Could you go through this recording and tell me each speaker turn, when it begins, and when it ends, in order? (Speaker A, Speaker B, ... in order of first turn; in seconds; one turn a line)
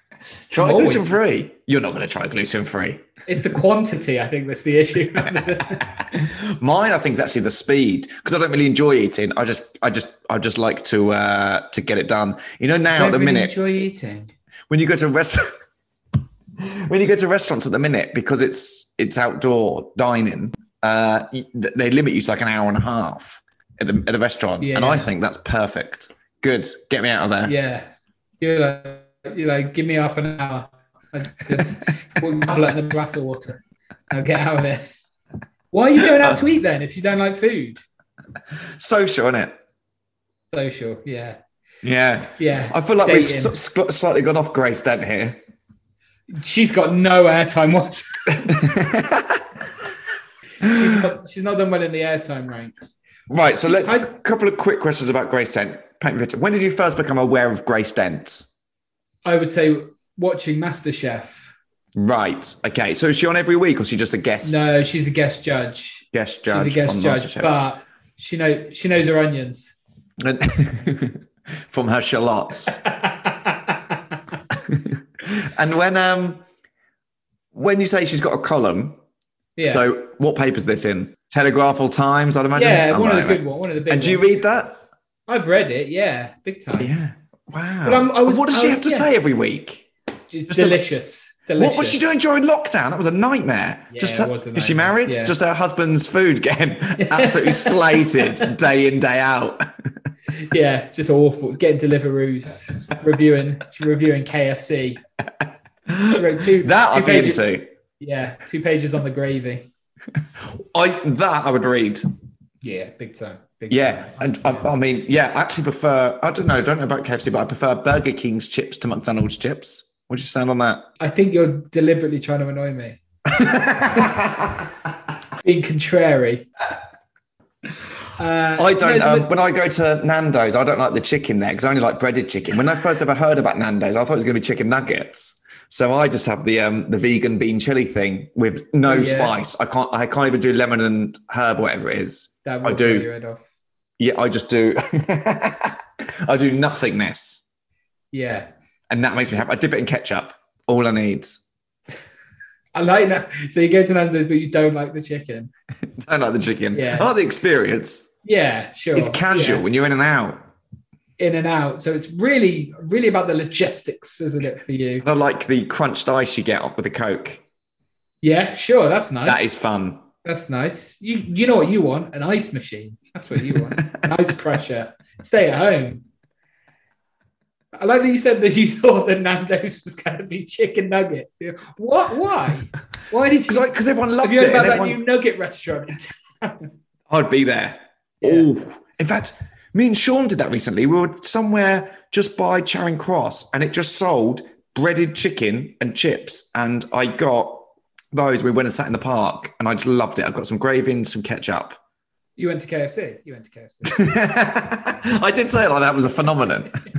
Speaker A: 0.5-3.1
Speaker B: 0.5-1.1
Speaker B: 3.3-5.9
Speaker A: 6.0-13.6
Speaker B: 12.9-14.3
Speaker A: 14.7-15.5
Speaker A: 16.6-27.5
Speaker B: 24.6-25.1
Speaker B: 27.4-27.9
Speaker B: 28.4-33.6
Speaker B: 34.1-34.9
Speaker B: 35.7-37.8
Speaker A: 38.8-39.6
Speaker B: 40.5-41.4
Speaker A: 41.8-45.4
Speaker B: 42.4-43.5
Speaker B: 46.3-48.7
Speaker A: 48.5-49.4
Speaker B: 50.6-53.0
Speaker A: 53.3-58.5
Speaker B: 53.6-54.1
Speaker B: 59.2-61.5
Speaker A: 62.0-64.7
Speaker B: 64.4-69.8
Speaker A: 66.1-67.5
Speaker A: 70.2-72.8
Speaker B: 72.8-74.0
Speaker A: 74.5-76.4
Speaker A: 77.5-79.0
Speaker B: 79.6-79.8
Speaker A: 79.6-84.8
Speaker B: 82.5-84.4
Speaker B: 85.3-86.9
Speaker A: 86.8-89.9
Speaker B: 87.8-89.1
Speaker B: 90.3-92.0
Speaker A: 90.5-90.8
Speaker A: 91.6-99.7
Speaker B: 93.9-95.3
Speaker B: 97.0-98.5
Speaker B: 100.4-105.0
Speaker A: 105.9-107.7
Speaker B: 106.1-107.4
Speaker B: 108.0-109.7
Speaker A: 110.5-112.0
Speaker B: 112.6-114.7
Speaker A: 113.7-120.9
Speaker B: 121.0-123.0
Speaker A: 123.3-124.7
Speaker B: 125.4-126.5
Speaker B: 128.2-129.3
Speaker A: 128.6-143.1
Speaker B: 138.8-139.4
Speaker B: 142.4-143.4
Speaker A: 144.0-147.4
Speaker B: 148.1-148.5
Speaker A: 148.9-151.4
Speaker B: 152.7-155.5
Speaker A: 155.9-158.1
Speaker B: 156.7-157.1
Speaker B: 158.2-159.6
Speaker A: 158.9-160.4
Speaker B: 161.2-165.0
Speaker A: 165.0-167.4
Speaker B: 168.2-169.6
Speaker A: 169.2-170.0
Speaker B: 170.2-176.0
Speaker B: 177.8-183.7
Speaker A: 183.5-185.0
Speaker B: 184.2-186.7
Speaker A: 187.1-201.8
Speaker B: 188.2-188.5
Speaker B: 202.4-204.1
Speaker A: 203.8-206.8